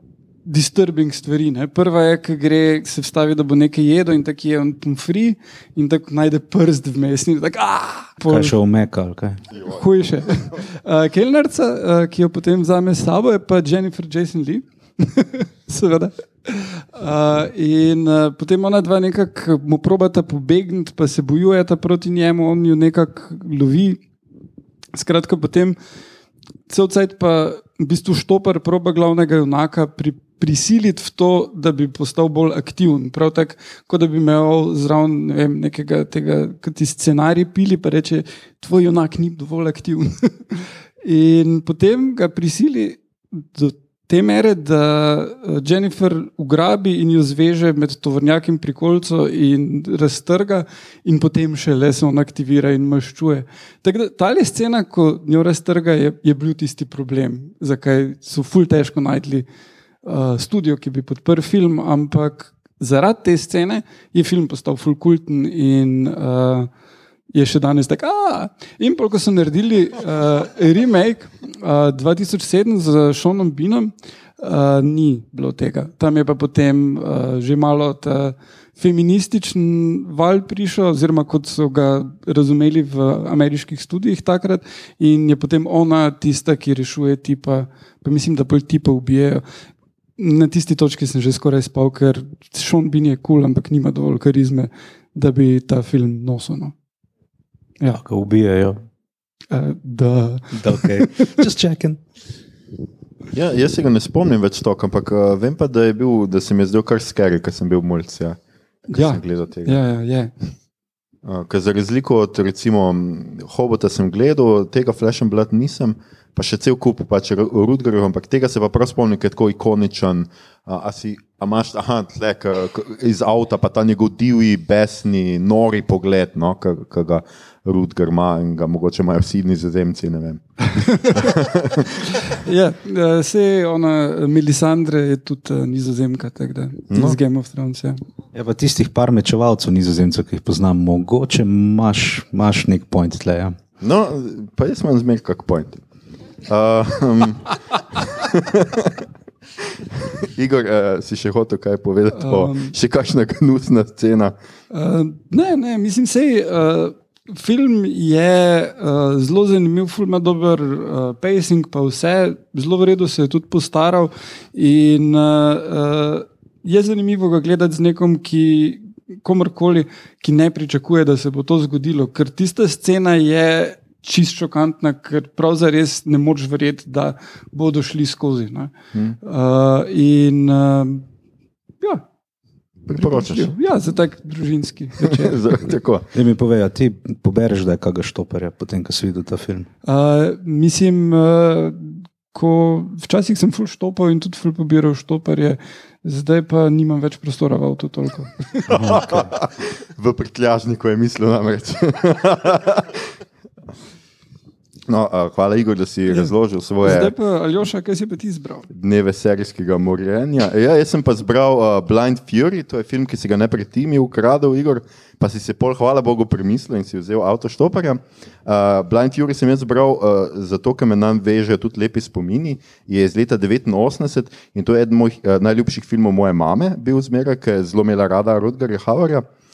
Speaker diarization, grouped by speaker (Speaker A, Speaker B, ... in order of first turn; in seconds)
Speaker A: 0.5-8.6, 9.6-24.0, 24.9-25.8, 26.7-59.5, 60.0-66.7, 67.3-89.4, 90.2-96.7, 99.5-100.9, 108.9-110.3, 132.3-138.0, 152.2-152.7, 154.7-181.0, 182.9-185.7, 189.8-198.9, 206.8-208.7
Speaker B: 8.3-9.5, 97.9-98.8, 100.5-102.0, 138.3-143.5, 186.1-189.7, 198.7-199.2
Speaker C: 103.3-109.8, 111.2-131.8, 136.9-137.2, 143.8-145.8, 146.5-149.0, 150.0-154.3, 182.9-183.5, 185.0-186.1, 198.8-203.1, 204.9-207.1, 208.7-229.2